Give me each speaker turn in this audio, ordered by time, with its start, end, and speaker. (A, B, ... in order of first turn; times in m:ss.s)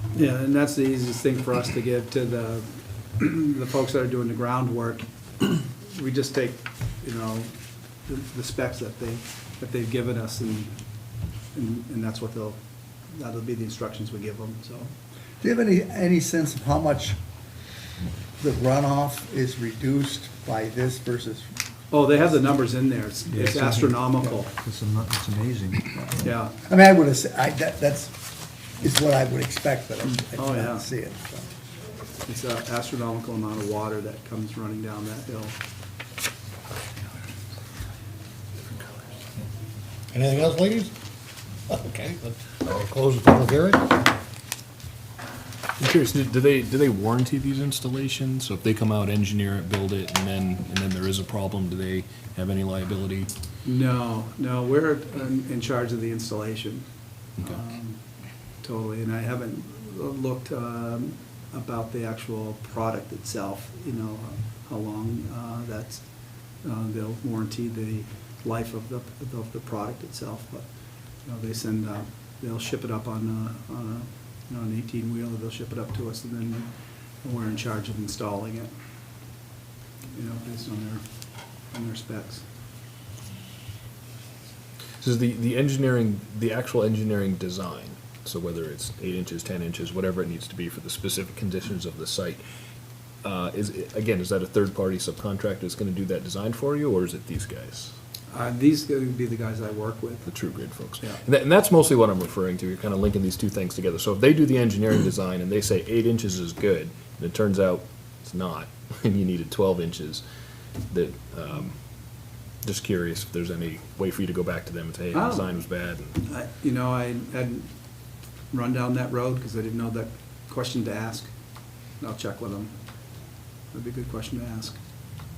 0:00.1-0:07.5 A
0:08.0-0:10.8 A
0:11.5-0:14.9 A
0:15.4-0:17.2 B
0:18.4-0:21.5 B
0:21.9-0:24.5 A
0:23.3-0:26.1 C
0:25.9-0:28.2 B
0:26.2-0:26.5 A
0:28.8-0:31.5 B
0:30.4-0:30.8 A
0:32.2-0:35.6 A
0:40.1-0:40.9 D
0:41.7-0:43.8 D
0:45.8-0:53.3 E
0:53.6-0:56.9 A
0:57.4-0:58.0 A
0:58.6-1:10.7 A
1:11.2-1:16.7 A
1:17.2-1:18.7 A
1:20.1-1:21.0 A
1:21.7-1:22.4 A
1:25.0-1:32.4 E
1:33.2-1:37.9 E
1:38.3-1:41.2 A
1:40.2-1:50.2 E
1:50.9-1:56.2 E
1:55.1-1:55.5 A
1:56.2-1:57.7 A
1:58.5-2:01.3 A
2:02.0-2:02.7 A
2:03.7-2:04.8 A